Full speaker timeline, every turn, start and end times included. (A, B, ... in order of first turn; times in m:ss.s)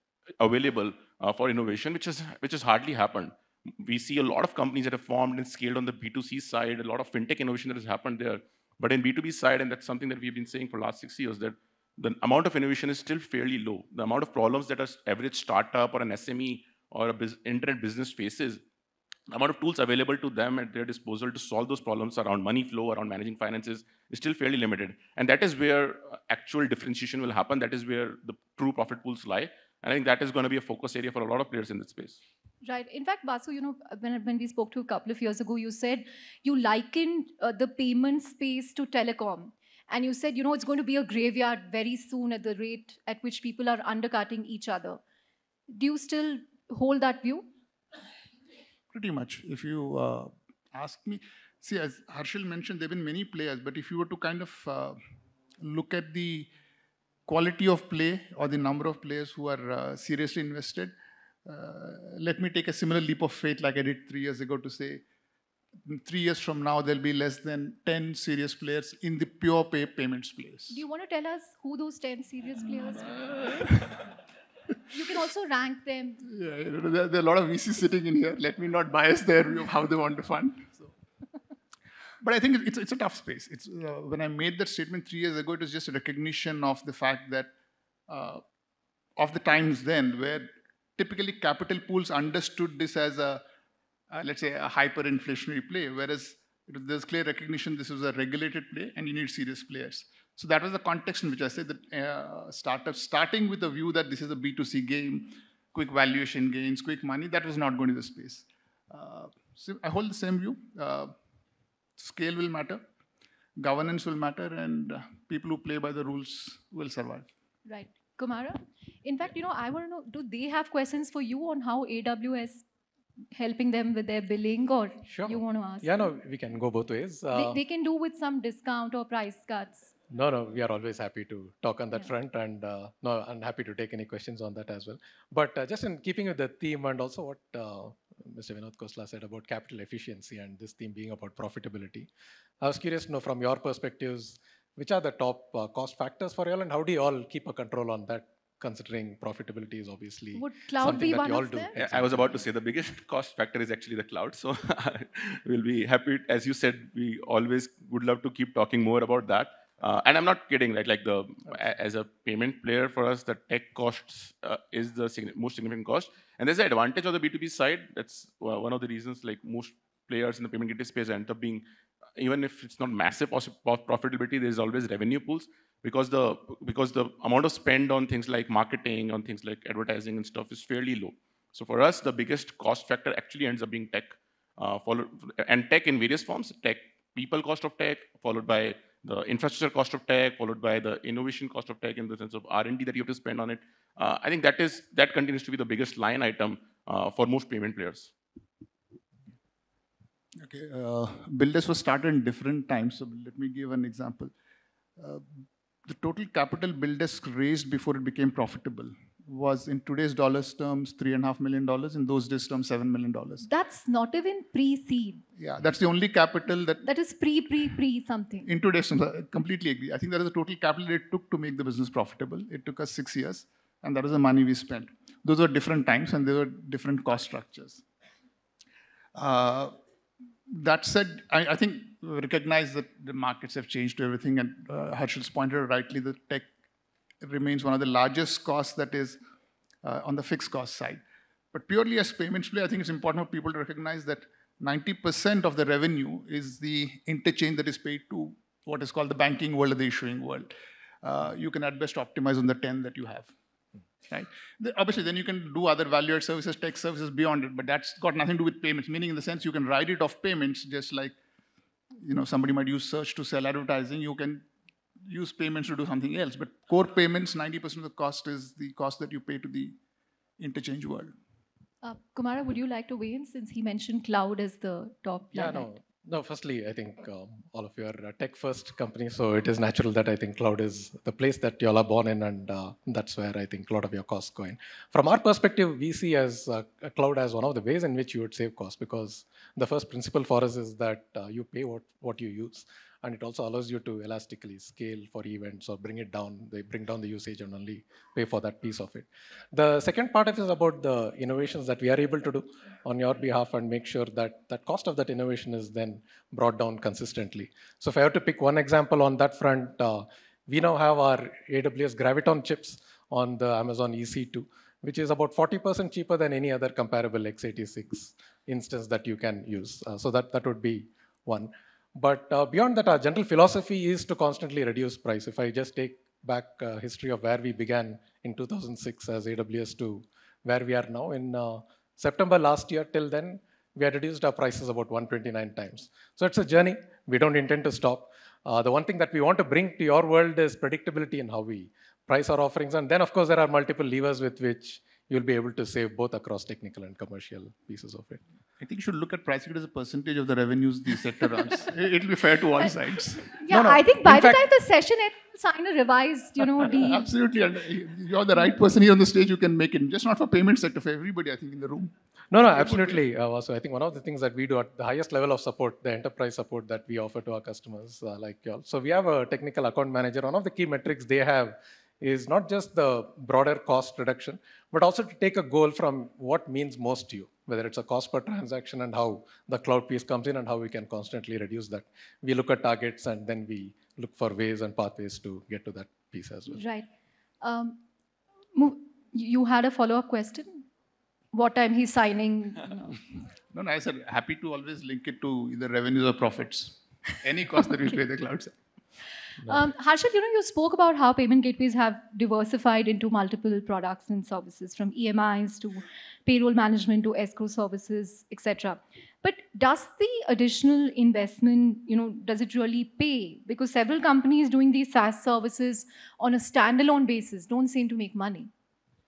0:00.4-0:18.6 A
0:19.3-0:32.2 A
0:32.6-0:45.0 B
0:45.7-0:47.5 B
0:48.9-0:55.0 C
0:55.6-0:56.5 C
0:57.3-1:00.9 C
1:01.4-1:05.0 C
1:05.8-1:10.8 C
1:10.7-1:13.2 B
1:13.2-1:14.0 C
1:14.9-1:16.2 B
1:16.2-1:20.9 C
1:22.2-1:27.5 C
1:28.1-1:28.4 C
1:29.2-1:33.4 C
1:34.1-1:51.1 C
1:52.0-1:52.8 C
1:53.6-1:57.3 C
1:57.7-2:02.7 B
2:03.3-2:06.0 B
2:05.1-2:07.6 D
2:07.3-2:09.9 B
2:10.1-2:22.1 D
2:22.6-2:32.4 D
2:30.4-2:31.8 B
2:31.8-2:51.6 A
2:52.2-3:18.1 A
3:20.4-3:24.3 C
3:25.0-3:33.5 C
3:33.4-3:35.2 B
3:35.4-3:36.9 C
3:36.9-3:38.5 B
3:38.5-3:47.8 C
3:49.2-3:49.7 C
3:50.5-3:56.5 C
3:57.2-3:59.2 C
3:59.8-4:01.0 C
4:01.5-4:10.5 C
4:11.0-4:13.3 C
4:14.1-4:21.2 C
4:22.0-4:24.5 C
4:25.0-4:29.8 C
4:30.4-4:31.1 C
4:31.8-4:35.7 B
4:35.3-5:48.2 D
5:48.6-5:53.4 C
5:53.4-5:57.1 B
5:53.5-5:54.4 D
5:56.6-6:02.0 C
6:02.3-6:26.6 D
6:02.5-6:03.0 C
6:26.5-6:26.9 B
6:27.4-6:27.8 B
6:28.6-6:30.6 B
6:31.3-6:33.0 B
6:33.5-6:38.5 C
6:39.4-6:58.5 B